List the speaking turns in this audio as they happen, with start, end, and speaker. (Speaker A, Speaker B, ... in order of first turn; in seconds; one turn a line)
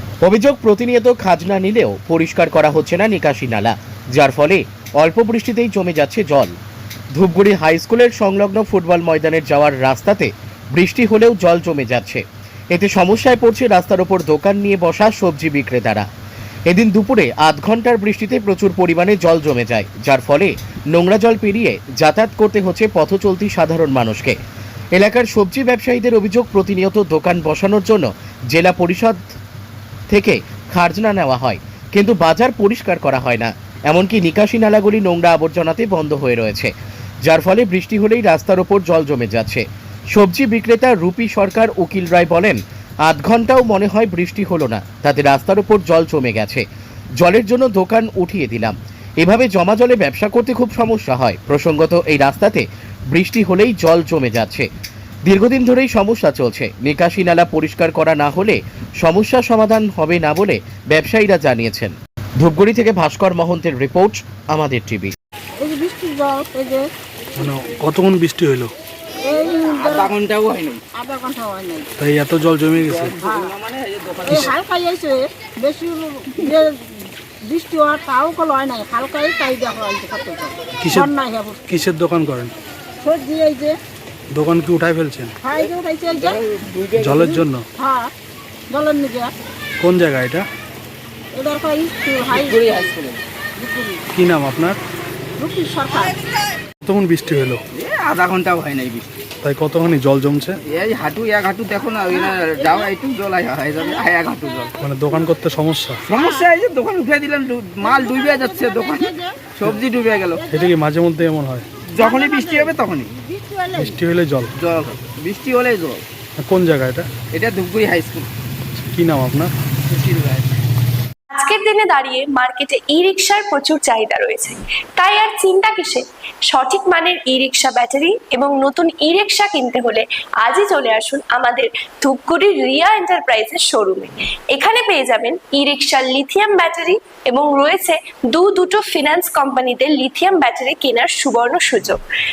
Speaker A: 0.2-6.5
Speaker A: 7.2-16.1
Speaker A: 16.7-24.4
Speaker A: 24.9-29.2
Speaker A: 30.1-36.7
Speaker A: 37.2-46.6
Speaker A: 47.2-54.7
Speaker A: 55.3-65.1
Speaker B: 65.6-66.9
Speaker C: 67.4-68.7
Speaker B: 69.2-70.1
Speaker D: 69.6-70.8
Speaker B: 71.0-71.9
Speaker C: 72.0-73.1
Speaker D: 72.9-74.5
Speaker B: 73.2-73.5
Speaker B: 74.3-81.6
Speaker C: 80.8-81.1
Speaker C: 81.7-82.5
Speaker B: 83.0-83.8
Speaker C: 84.3-85.3
Speaker B: 85.4-86.4
Speaker D: 86.2-87.4
Speaker C: 87.0-87.7
Speaker B: 87.3-88.1
Speaker B: 88.7-89.3
Speaker C: 89.8-90.5
Speaker B: 91.3-92.9
Speaker D: 92.3-93.2
Speaker B: 93.6-94.0
Speaker C: 94.1-94.8
Speaker B: 95.4-96.2
Speaker C: 96.8-97.6
Speaker D: 97.7-99.1
Speaker C: 99.4-100.6
Speaker D: 100.7-104.7
Speaker B: 102.2-102.7
Speaker C: 104.8-106.0
Speaker D: 106.1-110.4
Speaker B: 107.8-109.5
Speaker B: 110.4-110.7
Speaker C: 110.5-111.7
Speaker D: 111.8-113.1
Speaker B: 112.0-114.0
Speaker C: 113.8-114.5
Speaker D: 114.6-116.0
Speaker C: 116.4-117.1
Speaker D: 117.3-118.3
Speaker C: 118.8-119.5
Speaker D: 119.9-120.5
Speaker E: 121.3-142.0